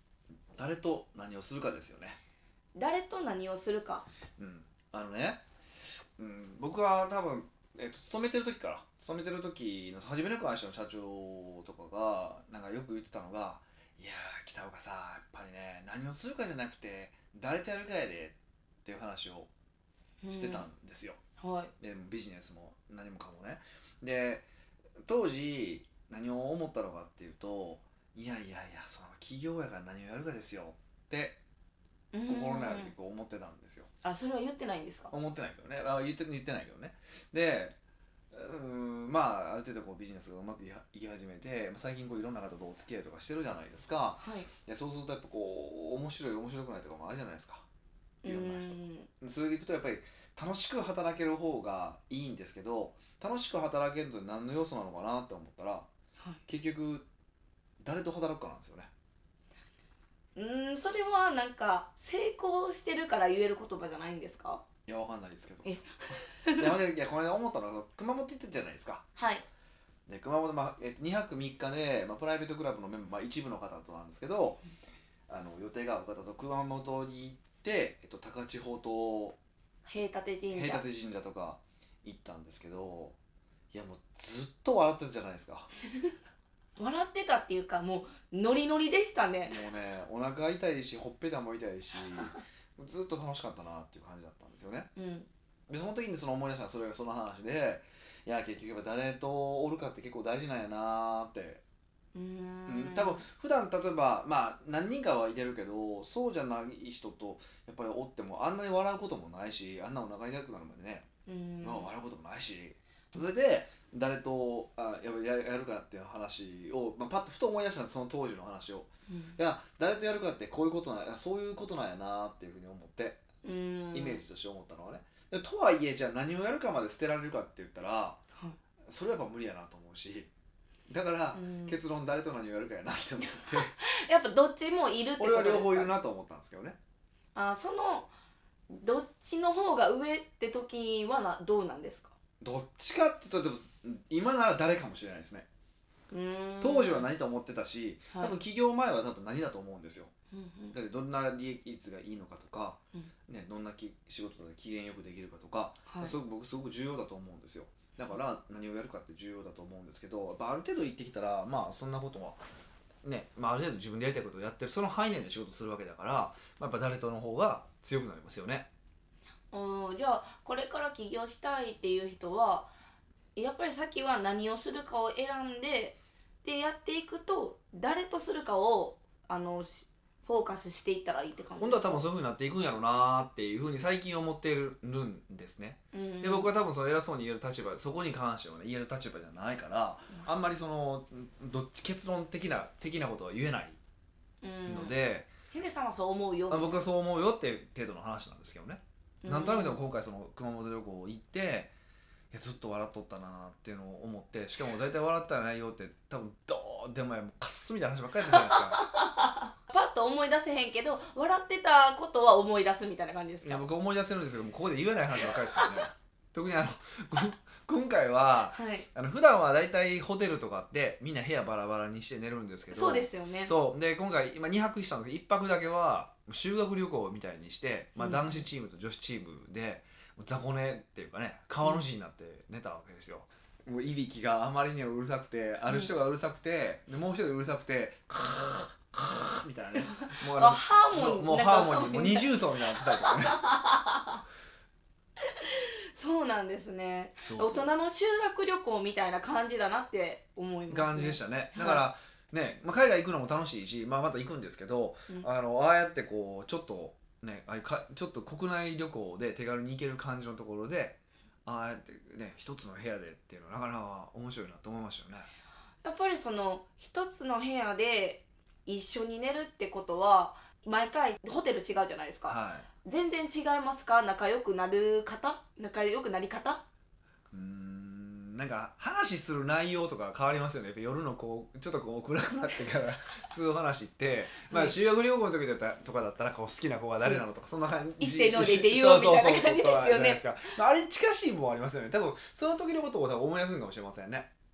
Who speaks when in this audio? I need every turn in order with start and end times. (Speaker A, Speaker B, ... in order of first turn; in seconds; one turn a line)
Speaker A: 0.6-2.2
Speaker B: 2.8-4.1
Speaker A: 4.4-5.4
Speaker A: 6.2-19.5
Speaker B: 20.2-20.7
Speaker A: 20.3-21.2
Speaker B: 21.4-21.7
Speaker A: 21.8-24.5
Speaker A: 25.0-31.4
Speaker B: 32.1-32.9
Speaker A: 32.3-33.9
Speaker B: 34.0-35.1
Speaker A: 35.1-37.8
Speaker A: 38.3-47.6
Speaker B: 44.2-44.5
Speaker B: 48.2-49.1
Speaker A: 48.3-55.9
Speaker A: 56.5-57.1
Speaker A: 57.8-58.9
Speaker B: 60.4-64.6
Speaker A: 64.9-69.1
Speaker B: 65.7-66.7
Speaker B: 69.2-69.5
Speaker A: 70.1-74.6
Speaker A: 75.3-79.4
Speaker B: 79.8-80.8
Speaker A: 80.5-83.2
Speaker A: 83.7-85.7
Speaker B: 86.8-89.6
Speaker A: 89.5-94.9
Speaker B: 95.0-95.3
Speaker A: 95.7-101.6
Speaker B: 102.1-103.2
Speaker A: 102.7-111.1
Speaker B: 111.3-111.9
Speaker A: 111.6-123.3
Speaker B: 119.1-119.4
Speaker B: 123.4-124.2
Speaker A: 123.9-128.2
Speaker A: 128.9-130.3
Speaker A: 130.9-133.8
Speaker B: 131.3-131.8
Speaker B: 133.8-135.9
Speaker A: 135.2-136.8
Speaker B: 137.3-138.1
Speaker B: 138.7-142.2
Speaker A: 142.4-145.5
Speaker B: 146.1-147.1
Speaker A: 146.6-150.1
Speaker B: 148.1-148.4
Speaker B: 150.3-150.8
Speaker A: 150.7-162.4
Speaker B: 155.9-156.2
Speaker A: 163.0-168.7
Speaker B: 169.5-172.7
Speaker B: 173.3-182.1
Speaker A: 181.6-193.8
Speaker B: 185.9-186.5
Speaker B: 194.4-194.9
Speaker A: 194.7-195.3
Speaker B: 195.5-196.8
Speaker A: 196.5-201.7
Speaker B: 199.2-199.8
Speaker A: 202.3-208.8
Speaker B: 208.3-213.7
Speaker A: 213.4-243.5
Speaker B: 215.2-215.9
Speaker B: 218.5-218.9
Speaker B: 222.7-223.5
Speaker B: 228.0-228.5
Speaker B: 235.7-235.9
Speaker B: 240.1-244.2
Speaker B: 245.2-251.8
Speaker A: 247.2-247.7
Speaker A: 250.7-265.3
Speaker B: 265.8-276.6
Speaker A: 272.3-272.7
Speaker A: 277.3-294.3
Speaker B: 284.5-284.8
Speaker B: 288.0-290.2